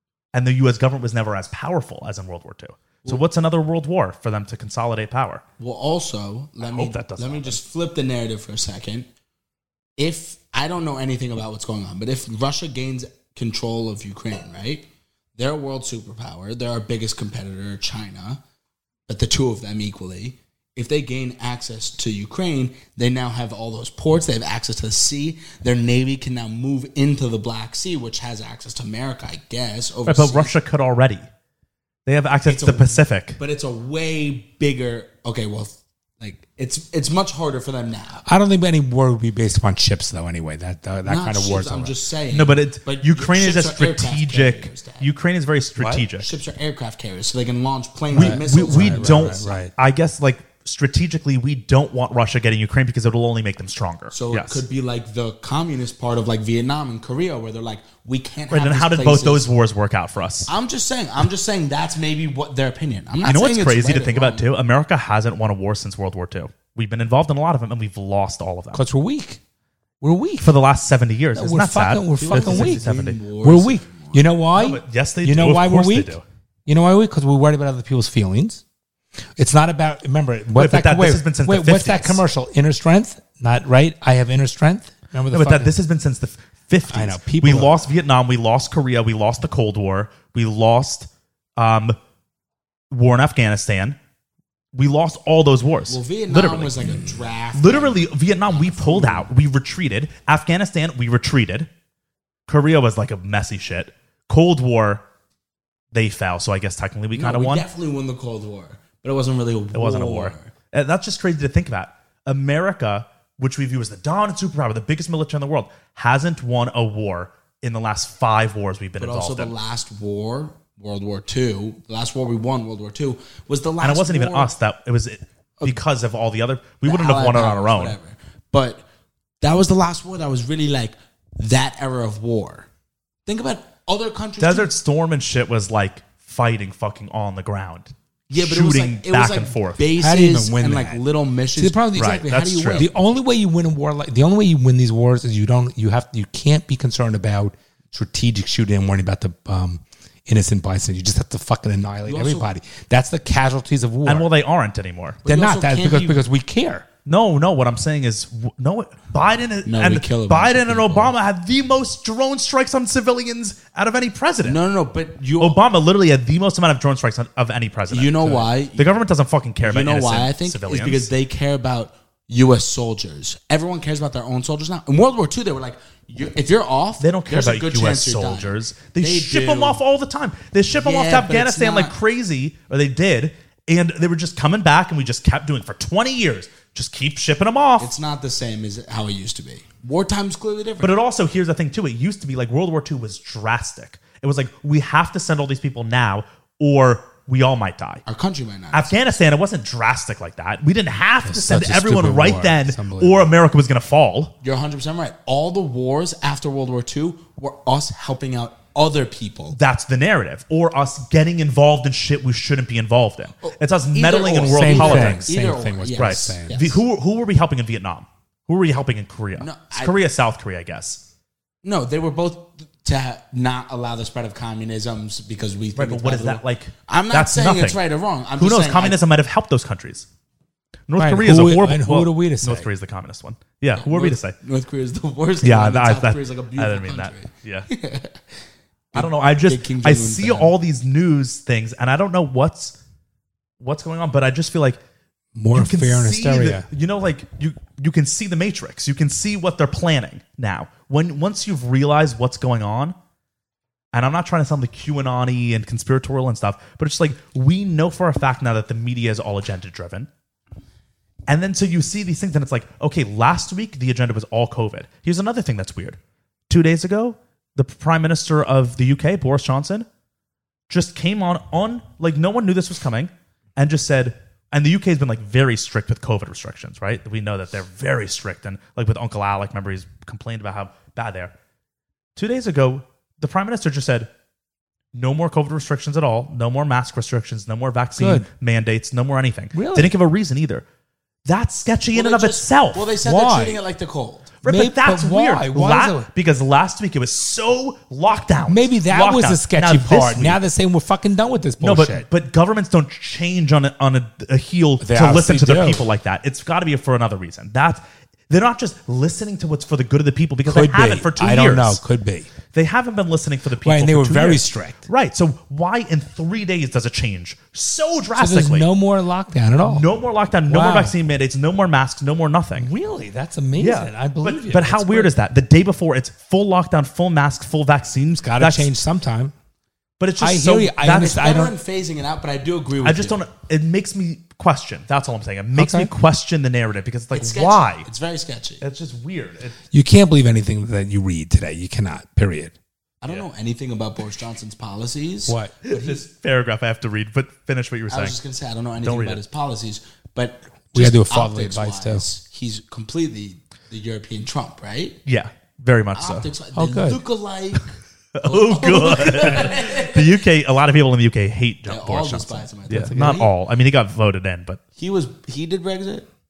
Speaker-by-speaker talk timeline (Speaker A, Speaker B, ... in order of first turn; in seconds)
Speaker A: 0.3-5.4, 6.6-7.6, 30.1-31.2, 32.0-33.4, 42.3-46.3, 48.1-54.6, 58.5-60.5, 63.2-68.8, 70.4-73.2, 74.6-76.2, 80.5-82.2, 85.3-92.0, 92.9-94.0, 94.7-96.9, 97.5-101.7, 102.5-105.0, 105.9-107.7, 109.7-119.5, 123.8-128.0, 134.4-139.8, 141.9-142.9, 154.0-155.2, 157.1-164.6, 165.4-171.1, 177.0-187.9, 190.8-198.0, 198.7-204.3, 209.5-215.3, 216.0-221.0, 225.8-227.8, 228.4-230.1, 230.9-234.3, 235.4-237.7, 238.9-242.8, 243.6-244.8, 245.5-252.9, 253.9-260.1, 261.3-266.0, 266.5-269.9, 270.7-281.3, 282.1-284.1, 284.9-290.6, 291.2-292.9, 294.4-300.4, 301.6-311.8, 312.5-318.7, 319.6-322.7, 323.6-328.7, 330.0-331.2, 332.8-337.9, 338.6-339.6, 345.6-348.2, 348.8-349.2, 355.1-356.3, 358.1-364.6
Speaker B: 5.6-9.1, 10.0-18.4, 19.1-30.5, 32.5-38.2, 41.0-45.1, 46.2-49.7, 54.1-59.5, 60.5-64.5, 72.2-74.3, 95.9-99.2, 107.1-110.5, 119.0-124.5, 126.8-128.8, 129.4-132.7, 133.2-134.7, 138.3-142.9, 152.1-152.5, 155.2-156.2, 159.6-161.1, 164.4-165.6, 167.9-168.9, 169.6-179.8, 180.8-181.9, 187.8-190.9, 198.1-199.0, 204.4-209.6, 213.4-216.8, 219.4-219.9, 221.6-229.0, 233.7-238.2, 238.9-240.5, 291.9-294.4, 330.9-333.2, 337.1-338.6, 343.0-346.0, 347.9-355.0, 355.9-357.7, 358.2-360.2, 361.7-363.3, 364.8-366.1
Speaker C: 38.2-41.9, 45.8-46.0, 48.1-49.7, 68.7-69.4, 70.0-70.5, 71.3-72.8, 73.4-76.1, 76.7-78.6, 79.4-85.7, 86.9-87.9, 140.0-141.0, 141.6-154.3, 155.2-156.8, 201.2-203.3, 214.5-216.6, 231.0-232.7, 245.3-246.7, 288.0-288.3, 289.5-289.9, 293.0-293.6, 294.4-296.1, 298.5-302.1, 304.8-305.8, 310.4-312.3, 313.6-314.8, 318.2-319.9, 320.5-320.9, 322.6-325.1, 328.2-329.3, 330.2-331.5, 335.5-335.9, 339.7-342.5, 345.3-345.5, 350.7-352.1, 356.5-357.0, 362.7-363.2